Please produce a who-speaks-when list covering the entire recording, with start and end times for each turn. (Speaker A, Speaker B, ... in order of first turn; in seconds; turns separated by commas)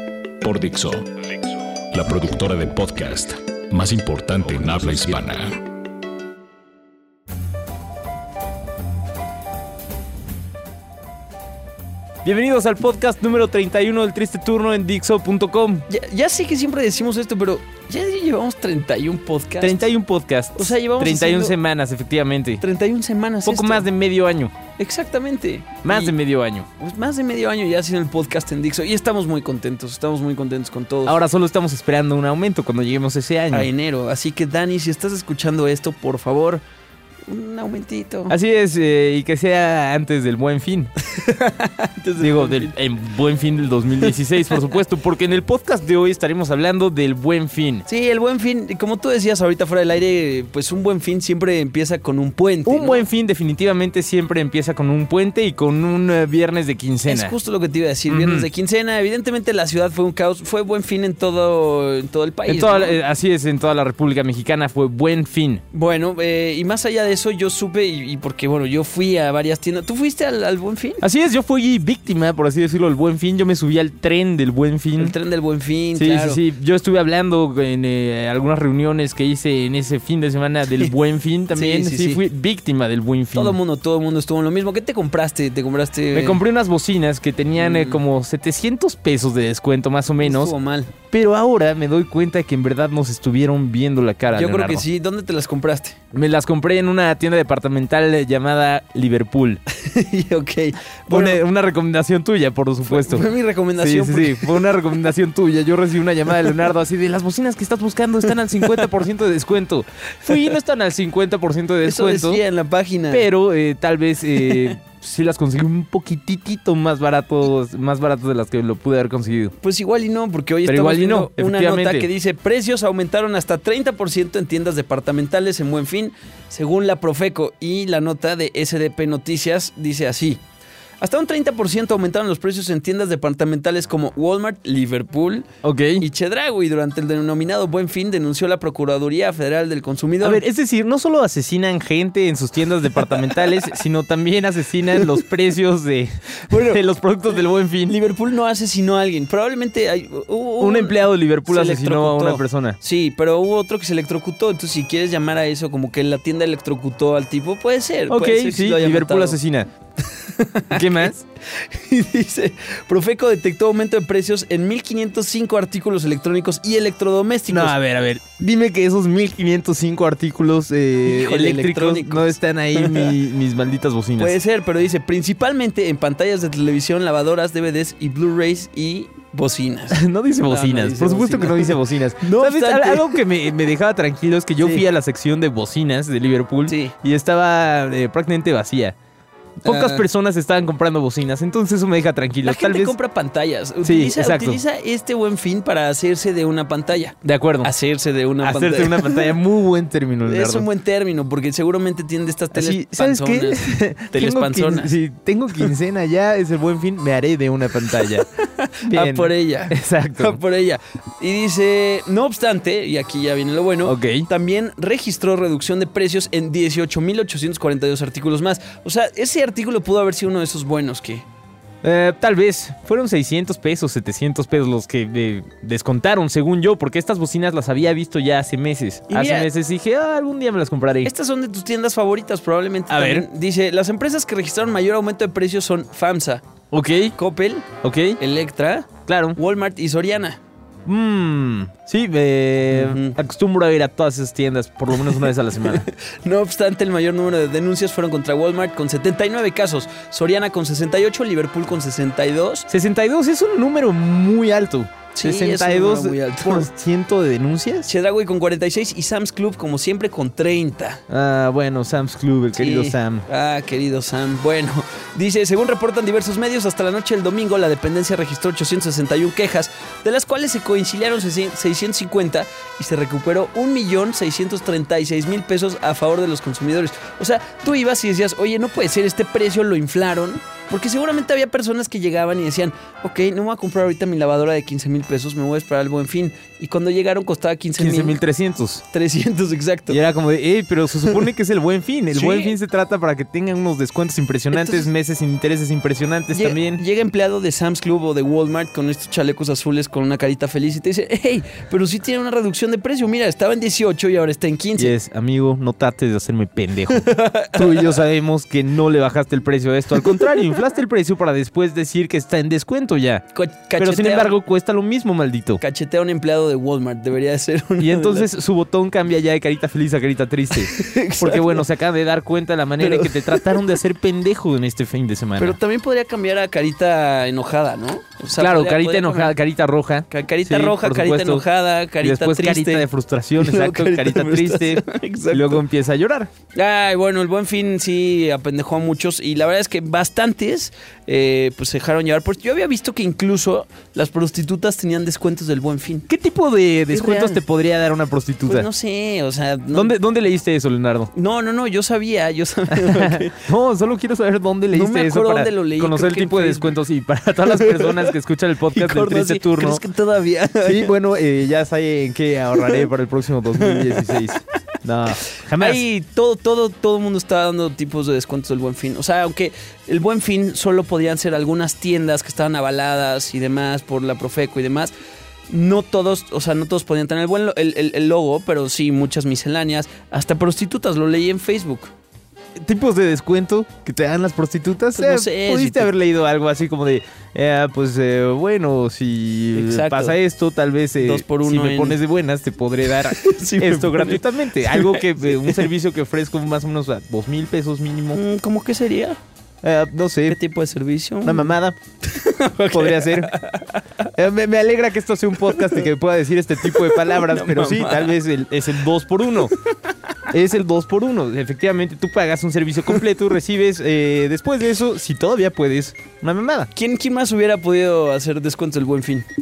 Speaker A: 0.4-5.6, Speaker B: 12.2-15.9, Speaker C: 15.9-19.8, Speaker B: 19.6-22.6, Speaker C: 20.6-21.6, Speaker C: 22.6-23.9, Speaker B: 23.4-24.5, Speaker C: 24.8-26.2, Speaker B: 25.8-26.7, Speaker C: 26.8-31.2, Speaker B: 31.1-33.7, Speaker C: 33.5-36.6, Speaker C: 37.3-38.4, Speaker B: 38.3-40.9, Speaker C: 41.0-42.7, Speaker B: 42.2-47.8, Speaker C: 47.9-53.0, Speaker B: 52.6-57.4, Speaker C: 57.0-63.0, Speaker B: 58.1-58.5, Speaker B: 62.5-65.6, Speaker C: 65.7-71.0, Speaker B: 71.0-75.1, Speaker C: 75.0-76.4, Speaker B: 76.0-83.6, Speaker C: 81.5-82.2, Speaker C: 83.3-86.4, Speaker B: 86.1-90.5, Speaker C: 87.6-88.0, Speaker C: 90.2-90.9, Speaker B: 91.1-94.8, Speaker C: 94.3-96.0, Speaker B: 96.1-99.6, Speaker C: 99.7-101.4, Speaker B: 101.1-112.4, Speaker C: 102.8-104.7, Speaker C: 110.3-110.5, Speaker C: 111.8-113.3, Speaker B: 113.1-119.5, Speaker C: 114.4-114.8, Speaker C: 119.6-130.4, Speaker B: 120.7-122.1, Speaker C: 131.0-140.4, Speaker B: 135.6-136.0, Speaker B: 140.2-147.9, Speaker C: 143.0-143.7, Speaker C: 146.5-146.8, Speaker C: 147.8-159.4, Speaker B: 150.6-152.8, Speaker B: 158.1-159.7, Speaker C: 160.0-167.7, Speaker B: 160.7-161.2, Speaker B: 167.5-174.3, Speaker C: 171.0-173.2, Speaker C: 174.2-183.2, Speaker B: 179.9-188.9, Speaker C: 186.7-186.9, Speaker B: 189.6-192.9, Speaker C: 189.6-190.0, Speaker C: 192.4-199.4, Speaker B: 193.8-194.6, Speaker B: 197.2-197.7, Speaker B: 198.4-200.7, Speaker C: 200.2-205.0, Speaker B: 202.5-208.3, Speaker C: 207.9-221.2, Speaker B: 208.8-210.4, Speaker B: 213.8-214.3, Speaker B: 221.8-231.1, Speaker C: 229.1-229.5, Speaker C: 231.0-236.4, Speaker B: 232.9-233.2, Speaker B: 236.7-237.1, Speaker C: 237.1-237.7, Speaker B: 237.8-238.2, Speaker C: 238.2-240.4, Speaker B: 239.1-239.4, Speaker B: 240.8-245.9, Speaker C: 242.7-243.2, Speaker C: 244.9-252.7, Speaker B: 252.7-257.9, Speaker C: 255.1-256.7, Speaker C: 257.8-261.0, Speaker B: 261.1-263.2, Speaker C: 262.6-288.2, Speaker B: 287.8-288.8, Speaker C: 288.9-290.0, Speaker B: 289.9-296.8, Speaker C: 292.1-292.6, Speaker C: 294.5-294.9, Speaker C: 296.3-304.9, Speaker B: 304.8-313.2, Speaker C: 306.9-308.0, Speaker C: 309.9-310.7, Speaker C: 313.3-314.4, Speaker B: 313.8-315.6, Speaker C: 315.6-318.3, Speaker B: 317.8-325.6, Speaker C: 320.5-321.6, Speaker C: 322.8-323.7, Speaker C: 325.4-329.4, Speaker B: 328.4-331.4, Speaker C: 330.1-335.6, Speaker B: 332.0-336.3, Speaker C: 336.5-346.1, Speaker B: 346.1-348.7, Speaker C: 346.9-347.4, Speaker C: 348.4-350.0, Speaker B: 349.7-351.1, Speaker C: 351.1-353.4, Speaker B: 352.7-359.8, Speaker C: 354.7-356.7, Speaker C: 357.4-358.1, Speaker C: 358.7-360.9, Speaker B: 360.6-365.8, Speaker C: 362.5-362.9, Speaker C: 363.5-364.4, Speaker C: 365.6-374.9, Speaker C: 375.5-381.9, Speaker B: 382.6-398.2, Speaker C: 384.9-385.9, Speaker C: 389.5-390.2, Speaker C: 391.0-392.0, Speaker C: 393.0-395.7, Speaker C: 398.1-399.2, Speaker B: 399.6-400.4, Speaker C: 400.3-404.1, Speaker B: 401.2-401.8, Speaker B: 402.7-403.3, Speaker B: 404.1-409.5, Speaker C: 405.4-405.9, Speaker C: 406.6-408.2, Speaker B: 410.3-416.7, Speaker C: 416.7-419.2